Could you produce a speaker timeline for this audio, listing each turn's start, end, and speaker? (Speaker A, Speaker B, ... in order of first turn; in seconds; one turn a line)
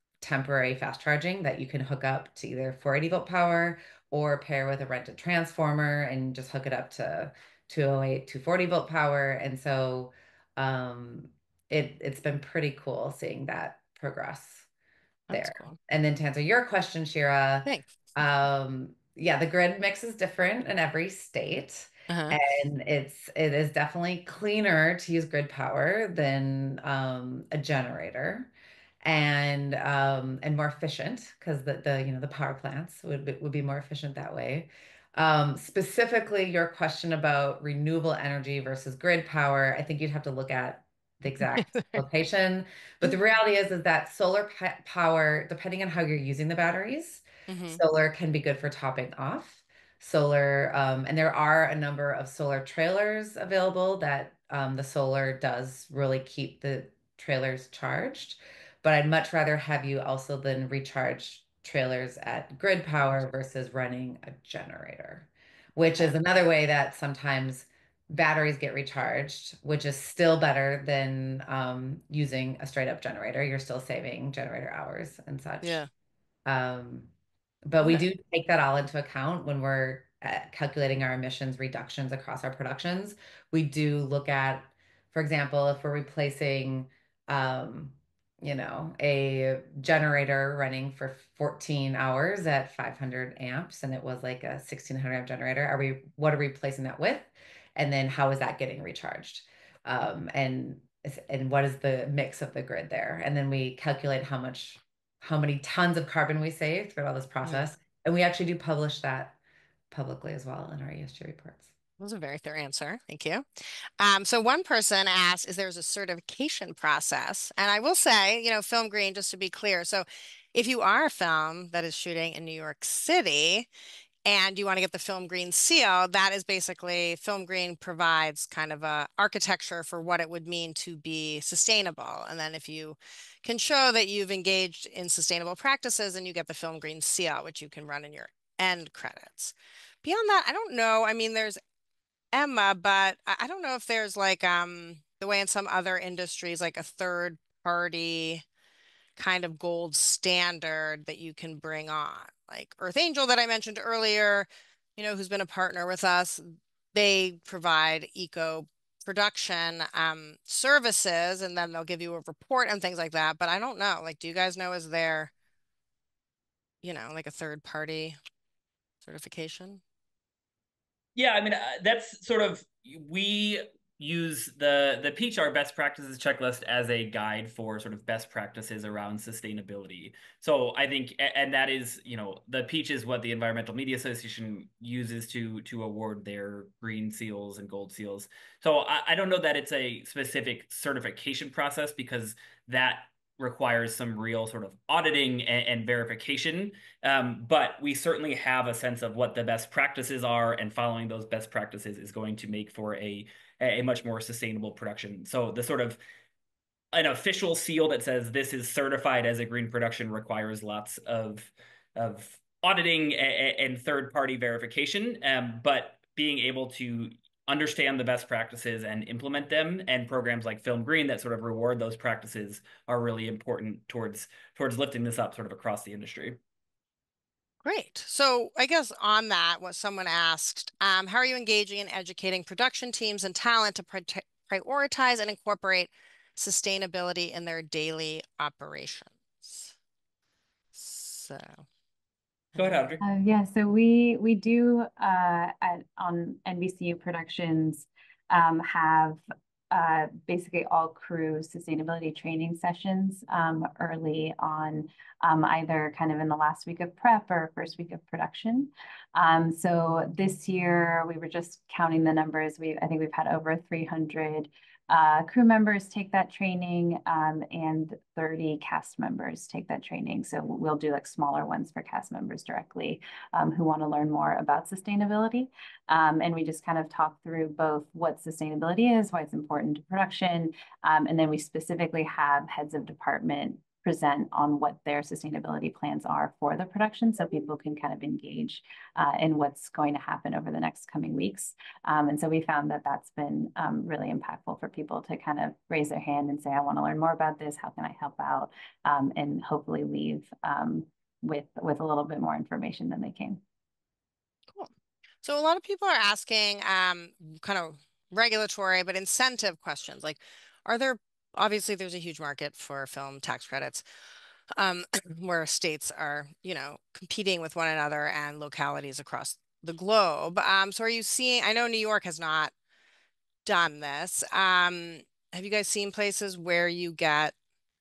Speaker A: 0.2-14.7
Speaker B: 15.3-15.8
Speaker A: 15.3-28.5
Speaker B: 17.7-18.0
Speaker B: 22.1-22.4
Speaker A: 29.0-75.8
Speaker B: 41.5-42.0
Speaker B: 47.5-47.8
Speaker B: 75.6-75.9
Speaker A: 76.5-77.1
Speaker A: 77.7-109.4
Speaker A: 109.9-111.7
Speaker B: 112.0-123.7
Speaker B: 124.3-141.6
Speaker B: 142.3-148.4
Speaker B: 149.2-165.3
Speaker B: 166.8-168.2
Speaker B: 169.0-169.8
Speaker C: 171.2-206.0
Speaker C: 206.9-226.4
Speaker B: 227.6-239.7
Speaker B: 240.7-241.7
Speaker C: 242.6-243.0
Speaker D: 243.0-303.4
Speaker B: 305.2-313.8
Speaker B: 314.5-322.5
Speaker B: 323.4-327.3